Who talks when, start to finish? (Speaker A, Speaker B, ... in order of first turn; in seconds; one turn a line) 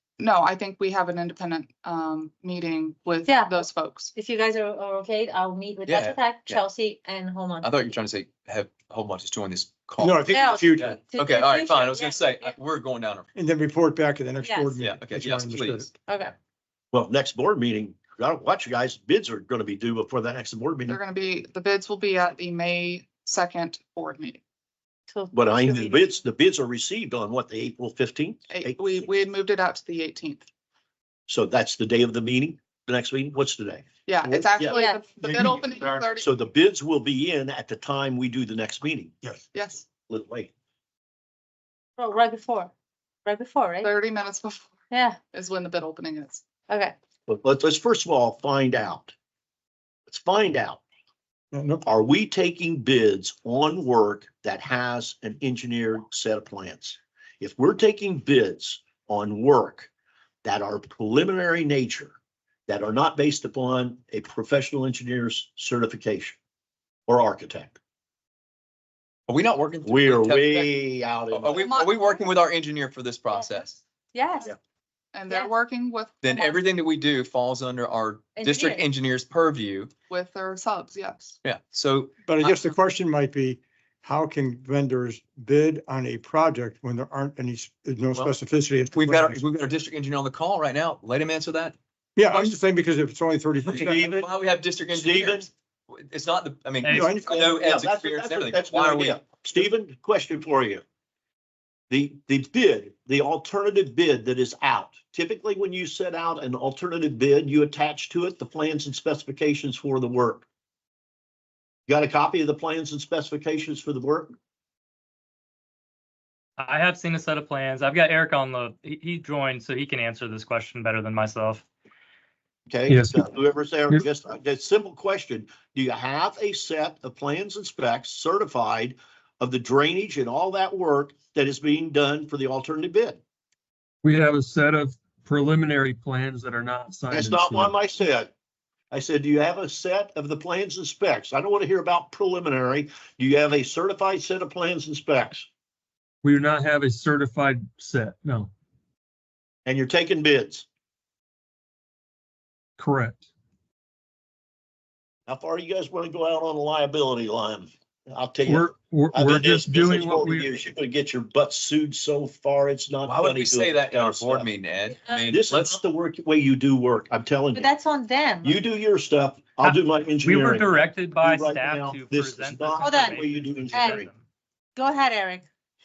Speaker A: 0.2-4.1
Speaker B: 3.2-3.5
Speaker B: 4.1-7.7
Speaker C: 5.8-6.6
Speaker C: 7.6-13.3
Speaker D: 10.0-11.0
Speaker B: 10.3-12.5
Speaker D: 13.3-15.9
Speaker B: 14.4-14.7
Speaker C: 14.8-15.9
Speaker B: 16.1-16.3
Speaker E: 16.9-21.0
Speaker A: 20.9-24.4
Speaker B: 25.1-26.1
Speaker E: 25.3-29.0
Speaker A: 28.5-30.4
Speaker E: 31.3-39.4
Speaker A: 34.1-36.2
Speaker B: 34.7-35.0
Speaker A: 39.5-39.8
Speaker E: 40.0-40.5
Speaker B: 42.0-42.7
Speaker B: 43.2-43.9
Speaker A: 43.8-44.7
Speaker B: 44.9-45.2
Speaker A: 45.3-46.4
Speaker B: 46.7-46.9
Speaker E: 47.3-49.1
Speaker E: 50.1-50.8
Speaker D: 51.5-51.8
Speaker E: 51.8-59.9
Speaker E: 60.4-62.1
Speaker E: 62.7-66.4
Speaker E: 67.1-67.8
Speaker C: 69.3-70.7
Speaker E: 69.8-71.7
Speaker C: 71.3-73.8
Speaker A: 71.5-72.2
Speaker B: 74.1-74.5
Speaker A: 75.1-76.6
Speaker C: 76.2-79.9
Speaker B: 78.3-78.9
Speaker A: 80.1-81.3
Speaker C: 81.4-82.6
Speaker D: 82.2-89.4
Speaker C: 88.9-91.7
Speaker D: 92.2-94.3
Speaker C: 93.7-99.2
Speaker E: 93.8-94.1
Speaker E: 94.9-95.5
Speaker F: 96.8-97.1
Speaker D: 96.9-97.5
Speaker E: 97.3-100.8
Speaker E: 101.9-110.4
Speaker E: 111.9-114.3
Speaker F: 116.6-121.6
Speaker E: 122.7-133.2
Speaker G: 122.9-123.2
Speaker G: 134.0-137.7
Speaker E: 137.1-138.3
Speaker E: 138.9-145.5
Speaker G: 146.2-148.5
Speaker E: 149.7-150.7
Speaker G: 152.8-153.3
Speaker E: 155.3-164.5
Speaker G: 158.4-160.5
Speaker C: 163.0-165.8
Speaker E: 165.3-167.7
Speaker B: 167.5-168.6
Speaker E: 168.4-174.1
Speaker F: 169.6-174.2
Speaker B: 172.8-173.2
Speaker B: 173.7-174.0
Speaker B: 174.8-175.4